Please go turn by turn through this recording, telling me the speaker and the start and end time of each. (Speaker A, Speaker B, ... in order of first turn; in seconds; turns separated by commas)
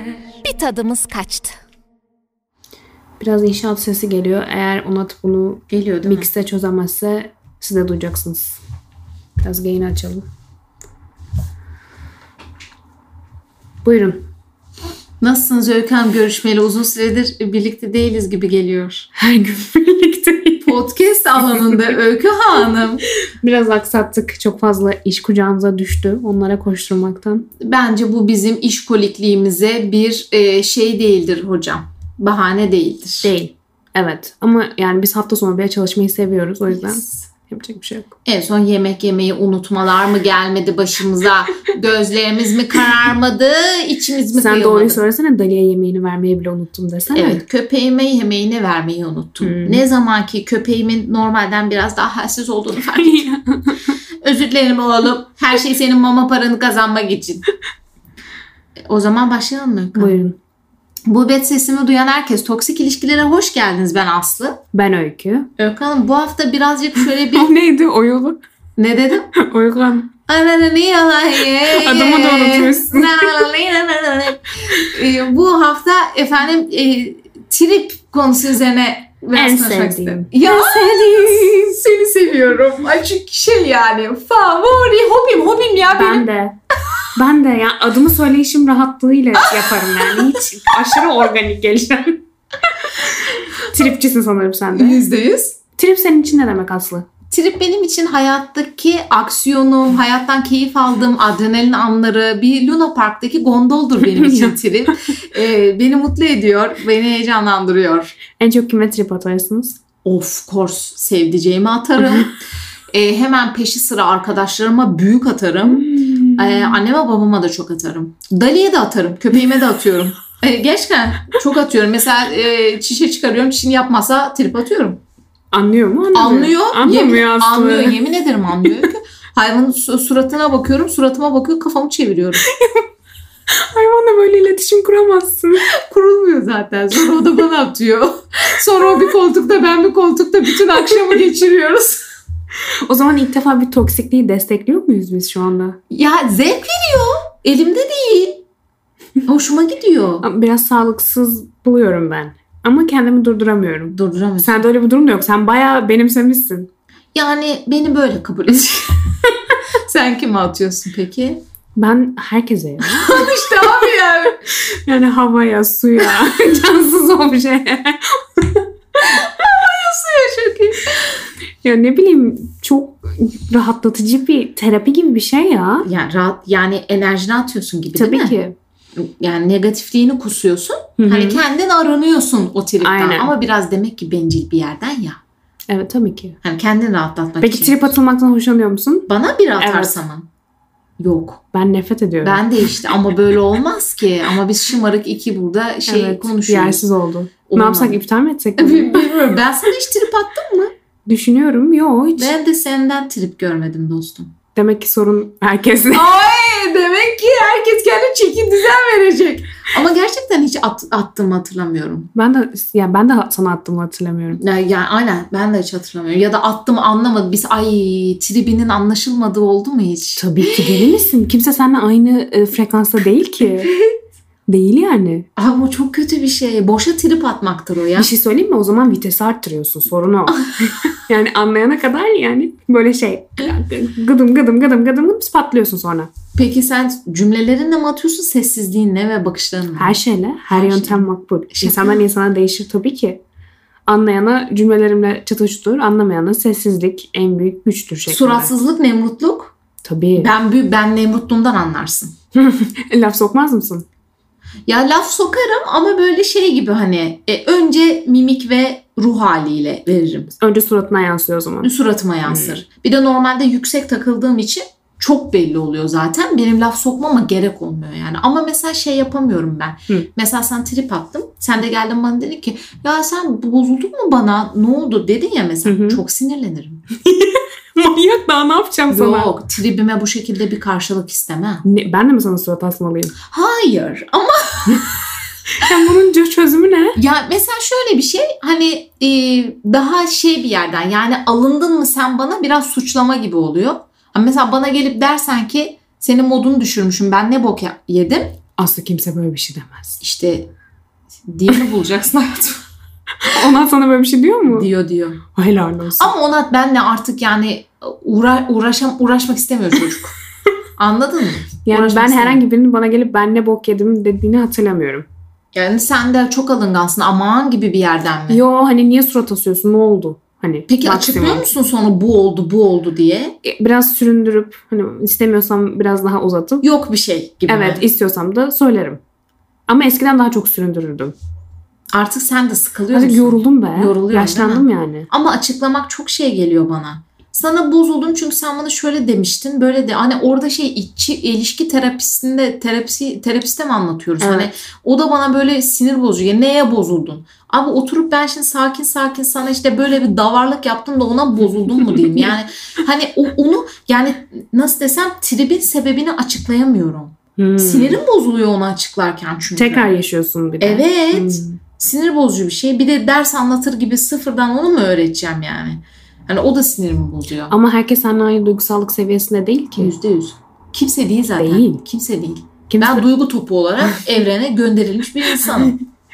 Speaker A: 0.4-1.6, Speaker B: 3.2-8.6, Speaker A: 5.7-6.3, Speaker B: 9.4-10.2, Speaker B: 13.8-14.2, Speaker A: 15.2-19.1, Speaker B: 19.1-20.8, Speaker A: 20.7-23.1, Speaker B: 23.4-27.5, Speaker A: 27.6-33.3, Speaker B: 33.2-38.1, Speaker A: 36.7-37.2, Speaker A: 38.2-45.0, Speaker B: 44.3-47.4, Speaker A: 47.1-53.3, Speaker B: 49.4-49.8, Speaker B: 53.0-54.0, Speaker A: 54.2-57.5, Speaker A: 58.9-60.2, Speaker B: 60.0-60.4, Speaker A: 61.1-64.6, Speaker B: 64.7-65.5, Speaker A: 65.6-67.5, Speaker B: 67.3-68.4, Speaker A: 68.8-69.3, Speaker B: 69.4-70.1, Speaker A: 70.3-86.3, Speaker B: 71.6-73.4, Speaker B: 79.3-81.6, Speaker B: 85.9-86.6, Speaker B: 87.1-95.0, Speaker A: 89.4-90.4, Speaker A: 94.7-95.6, Speaker B: 95.8-97.0, Speaker A: 97.3-108.2, Speaker B: 104.0-104.6, Speaker B: 108.4-109.8, Speaker A: 110.0-112.4, Speaker A: 112.9-125.0, Speaker B: 115.7-116.8, Speaker B: 125.5-128.0, Speaker A: 126.1-132.4, Speaker B: 132.4-132.9, Speaker B: 133.6-135.7, Speaker A: 135.7-142.1, Speaker B: 142.9-145.8, Speaker A: 145.9-148.4, Speaker A: 149.2-150.2, Speaker B: 150.2-156.7, Speaker A: 153.9-154.6, Speaker A: 157.1-161.4, Speaker B: 161.8-163.3, Speaker A: 162.8-164.4, Speaker B: 164.6-169.2, Speaker A: 169.0-171.2, Speaker B: 171.6-175.9, Speaker A: 175.8-178.4, Speaker B: 178.0-178.6, Speaker A: 179.0-185.2, Speaker B: 181.0-181.4, Speaker B: 182.8-183.3, Speaker B: 185.7-186.4, Speaker A: 186.4-187.9, Speaker B: 187.4-190.0, Speaker A: 189.1-190.3, Speaker A: 191.0-191.4, Speaker B: 191.5-192.5, Speaker A: 192.2-196.8, Speaker B: 195.9-199.1, Speaker A: 197.5-198.0, Speaker A: 198.6-200.7, Speaker B: 201.1-202.3, Speaker A: 202.2-204.3, Speaker B: 204.6-206.1, Speaker A: 205.9-212.1, Speaker B: 212.2-214.4, Speaker A: 214.4-220.9, Speaker B: 220.2-223.7, Speaker B: 224.5-225.3, Speaker A: 225.4-228.1, Speaker B: 228.0-236.1, Speaker A: 236.3-242.0, Speaker B: 239.8-243.2, Speaker B: 243.9-248.5, Speaker A: 248.1-249.6, Speaker B: 249.8-250.3, Speaker A: 250.2-252.2, Speaker B: 252.3-253.9, Speaker A: 254.7-260.4, Speaker B: 260.4-261.7, Speaker A: 261.6-276.8, Speaker B: 262.2-262.6, Speaker B: 275.6-276.0, Speaker B: 276.9-279.3, Speaker A: 278.9-281.6, Speaker B: 281.6-283.1, Speaker A: 283.2-284.9, Speaker B: 285.6-287.0, Speaker A: 286.9-298.4, Speaker B: 298.6-300.0, Speaker A: 300.0-300.5, Speaker A: 301.2-302.6, Speaker B: 303.2-304.7, Speaker A: 304.4-305.2, Speaker B: 305.4-306.1, Speaker A: 306.0-310.2, Speaker A: 310.8-312.4, Speaker B: 311.7-315.1, Speaker A: 315.5-318.4, Speaker B: 318.3-321.5, Speaker A: 320.7-323.4, Speaker B: 323.4-326.7, Speaker A: 326.6-327.8, Speaker B: 327.5-329.0, Speaker B: 329.7-331.1, Speaker A: 331.9-359.9, Speaker B: 332.9-335.1, Speaker B: 344.2-344.5, Speaker B: 357.4-358.0, Speaker B: 359.6-361.6, Speaker A: 360.6-367.5, Speaker B: 367.5-369.9, Speaker A: 369.8-375.8, Speaker B: 371.4-371.8, Speaker B: 372.7-373.1, Speaker B: 375.4-375.7